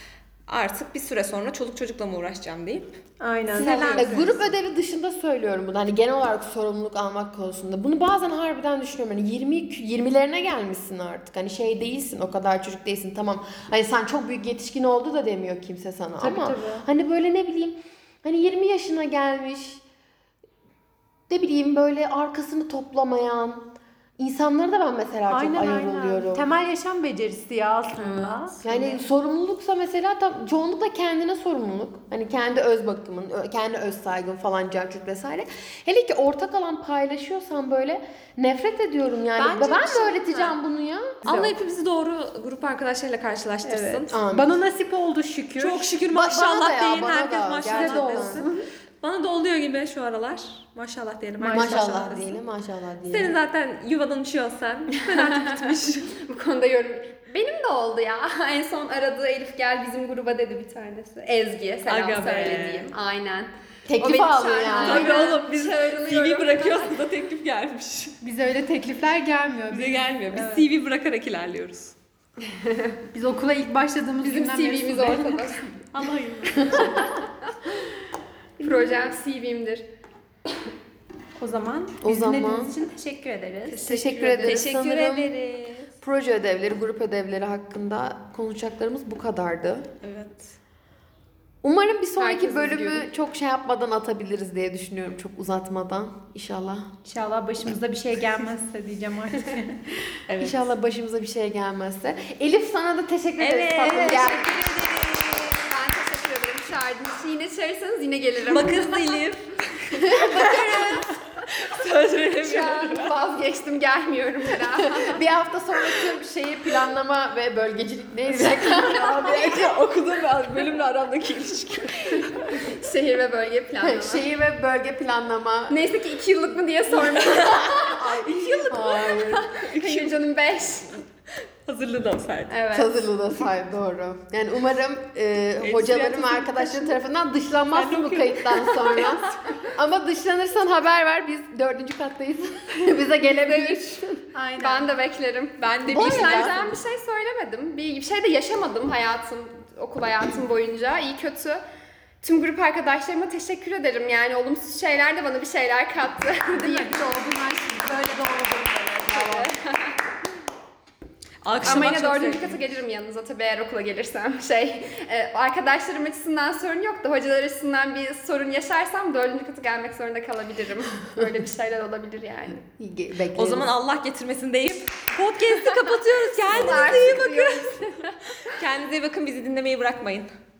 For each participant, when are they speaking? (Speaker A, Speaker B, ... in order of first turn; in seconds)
Speaker A: 0.5-2.9, 3.5-4.5, 41.2-44.1, 45.6-52.4, 53.1-56.2, 61.9-62.9, 64.7-68.2, 69.7-72.0, 75.9-77.2, 83.8-85.9, 90.0-90.5, 100.3-100.7, 103.4-105.7, 108.5-113.2, 118.3-122.6, 127.2-127.5, 128.7-130.2, 131.7-132.6, 135.6-137.0, 137.7-139.4, 145.6-146.7, 161.4-162.6, 173.3-177.8, 178.4-180.3
Speaker B: 3.2-4.3, 16.2-16.9, 25.3-29.1, 39.5-40.3, 41.2-41.5, 43.6-46.0, 47.6-48.7, 51.4-52.2, 68.2-70.7, 73.1-75.6, 78.6-79.0, 81.4-83.9, 97.0-100.1, 144.3-144.9, 156.6-159.5
Speaker C: 3.5-19.8, 21.3-26.4, 28.6-41.2, 44.1-44.5, 46.1-48.5, 51.5-53.4, 63.9-65.2, 82.0-82.8, 83.7-85.3, 86.0-89.9, 91.6-96.9, 100.4-104.6, 110.1-110.8, 114.9-119.7, 123.8-125.8, 127.3-129.4, 132.7-144.3, 145.9-146.7, 172.8-173.7
Speaker D: 39.4-40.4, 55.0-67.0, 72.5-73.0, 74.2-75.7, 78.6-79.8, 84.3-84.7, 92.2-93.1, 105.5-109.2, 110.1-111.2, 112.4-115.2, 122.2-124.3, 125.7-131.0, 132.5-133.1, 143.5-143.9, 144.6-151.6, 152.2-157.0, 159.1-160.0, 161.6-172.6, 176.4-178.2